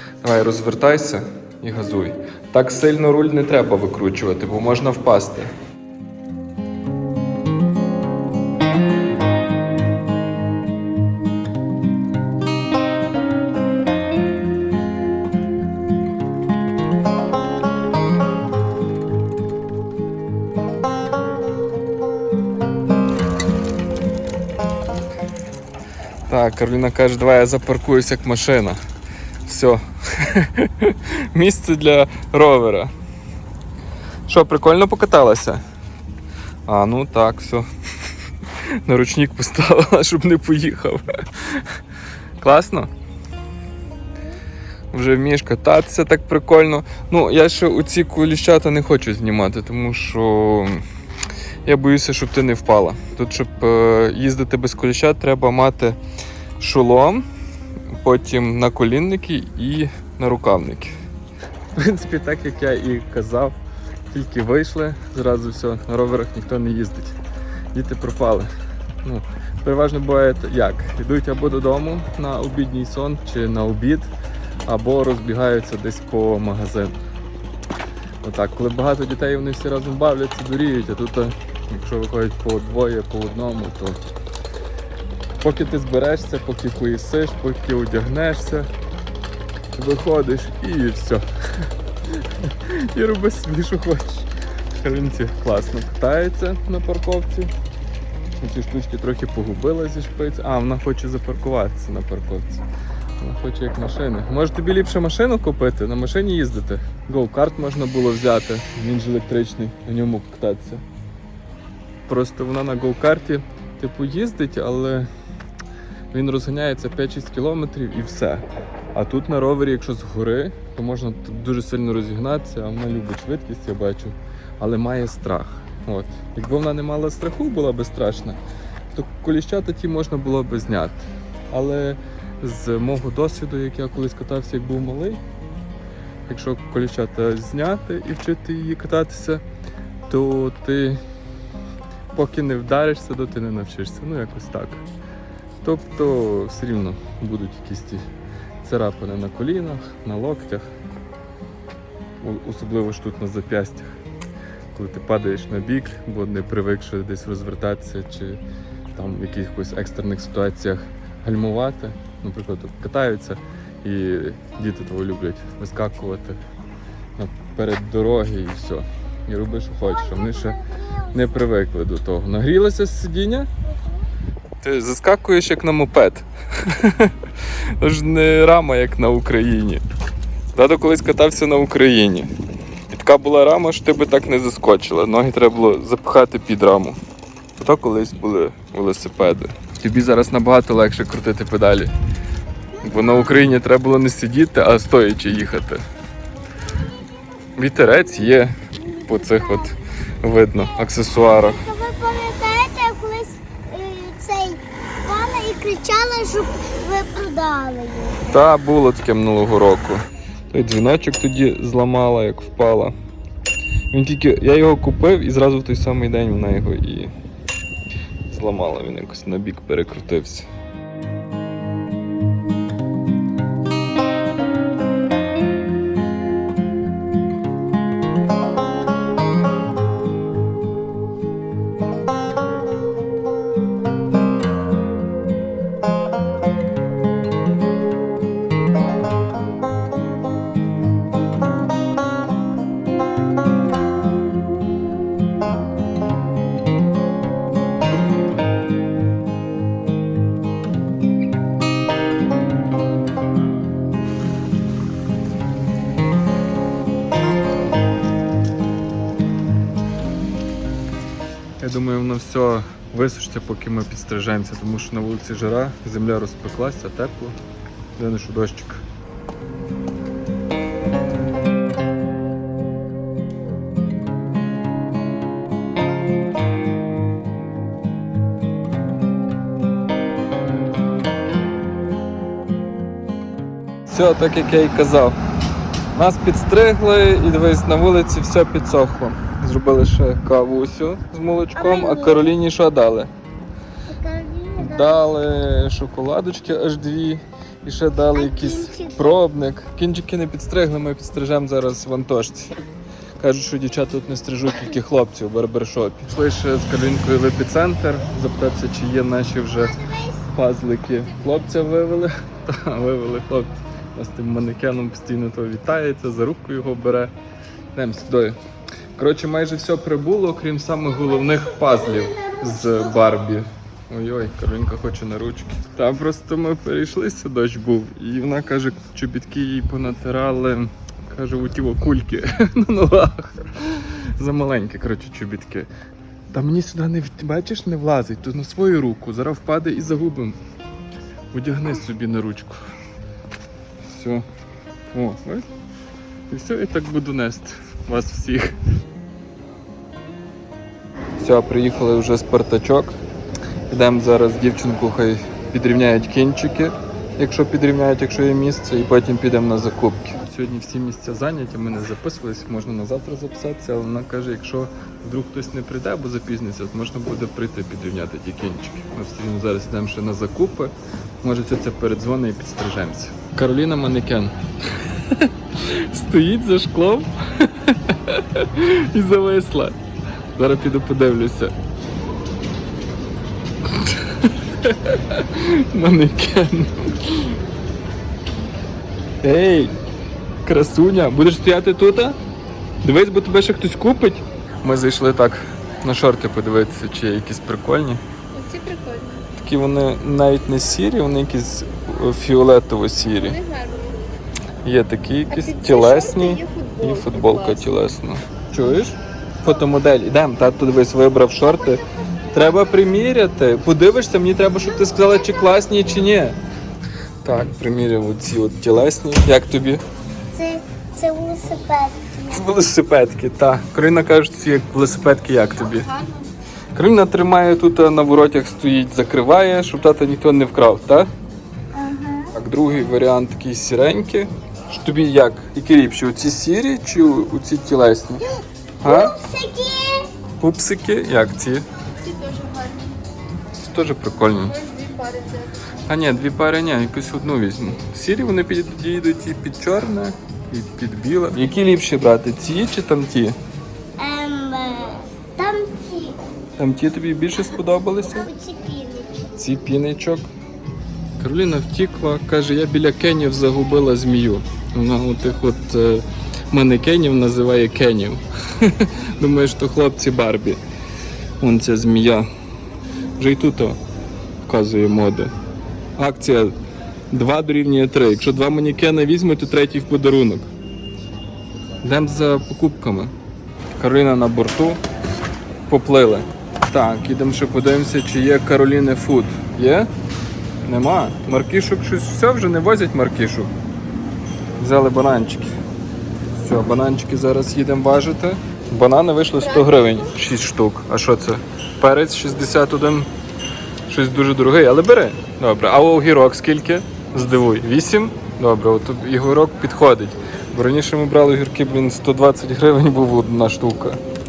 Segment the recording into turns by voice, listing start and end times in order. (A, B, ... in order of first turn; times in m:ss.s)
0:00.2-0:05.5 A
0:26.3-0:28.8 A
0:29.4-0:32.9 A
0:34.2-0:35.6 A
0:36.6-0:37.6 A
0:38.6-0:41.7 A
0:42.4-0:42.9 A
0:44.9-0:50.8 A
0:51.6-0:56.0 A
0:56.6-0:57.2 A
0:58.0-1:00.9 A
1:01.8-1:03.6 A
1:04.1-1:07.2 A
1:07.7-1:08.5 A
1:09.0-1:14.1 A
1:14.6-1:16.9 A
1:18.2-1:24.0 A
1:25.4-1:28.7 A
1:29.7-1:34.3 A
1:34.8-1:37.5 A
1:38.4-1:42.6 A
1:43.2-1:50.8 A
1:52.1-1:55.1 A
1:56.1-2:08.4 A
2:08.9-2:15.2 A
2:16.2-2:19.4 A
2:20.1-2:21.0 A
2:22.1-2:24.8 A
2:25.6-2:28.0 A
2:28.6-2:30.7 A
2:32.2-2:34.0 A
2:34.7-2:38.4 A
2:38.9-2:46.4 A
2:47.2-2:50.6 A
2:49.8-2:51.2 B
2:51.1-2:53.5 A
2:54.6-2:59.8 A
3:00.5-3:02.3 A
3:02.9-3:07.0 A
3:07.6-3:11.9 A
3:12.8-3:15.8 A
3:17.6-3:21.6 A
3:18.8-3:19.8 B
3:21.2-3:28.3 B
3:28.2-3:32.9 A
3:33.9-3:37.1 A
3:38.3-3:40.5 A
4:21.6-4:27.4 A
4:28.0-4:28.8 A
4:43.9-4:45.2 A
4:45.9-4:53.1 A
4:51.6-4:52.2 B
4:53.9-4:55.1 B
4:54.6-5:02.6 A
4:58.1-4:59.2 B
5:03.2-5:17.1 A
5:09.7-5:10.2 B
5:17.7-5:18.4 A
5:19.0-5:35.7 A
5:21.3-5:22.8 B
5:36.3-5:40.4 A
5:41.3-5:42.7 A
5:43.8-5:44.2 A
5:44.9-5:45.4 A
5:46.3-5:48.6 A
5:51.2-5:53.0 A
5:53.7-6:19.8 A
6:20.3-6:21.5 A
6:23.7-6:27.4 A
6:29.2-6:29.8 A
6:30.4-6:32.2 A
6:32.8-6:38.0 A
6:38.3-6:39.2 C
6:39.3-6:43.4 A
6:43.2-6:44.0 C
6:44.6-6:56.4 A
6:45.3-6:47.6 C
6:51.5-6:52.5 B
6:54.9-6:55.4 B
6:57.2-6:59.8 A
7:00.3-7:02.4 B
7:02.3-7:05.9 A
7:05.9-7:06.3 C
7:06.7-7:11.1 A
7:11.7-7:12.3 B
7:12.3-7:18.3 A
7:18.8-7:19.1 A
7:18.8-7:20.1 B
7:20.4-7:21.7 A
7:22.0-7:23.0 C
7:23.6-7:24.6 A
7:24.5-7:25.5 C
7:25.8-7:33.4 A
7:34.0-7:36.2 B
7:36.6-7:38.3 A
7:38.1-7:39.1 B
7:39.3-7:40.3 A
7:41.2-7:50.6 A
7:51.4-7:52.3 A
7:53.2-7:53.8 A
7:54.4-7:55.3 A
7:56.0-7:56.6 A
7:57.1-8:00.5 A
8:01.8-8:03.1 A
8:03.8-8:04.8 A
8:05.7-8:09.9 A
8:10.6-8:13.5 A
8:14.6-8:15.5 A
8:16.3-8:23.1 A
8:23.9-8:34.0 A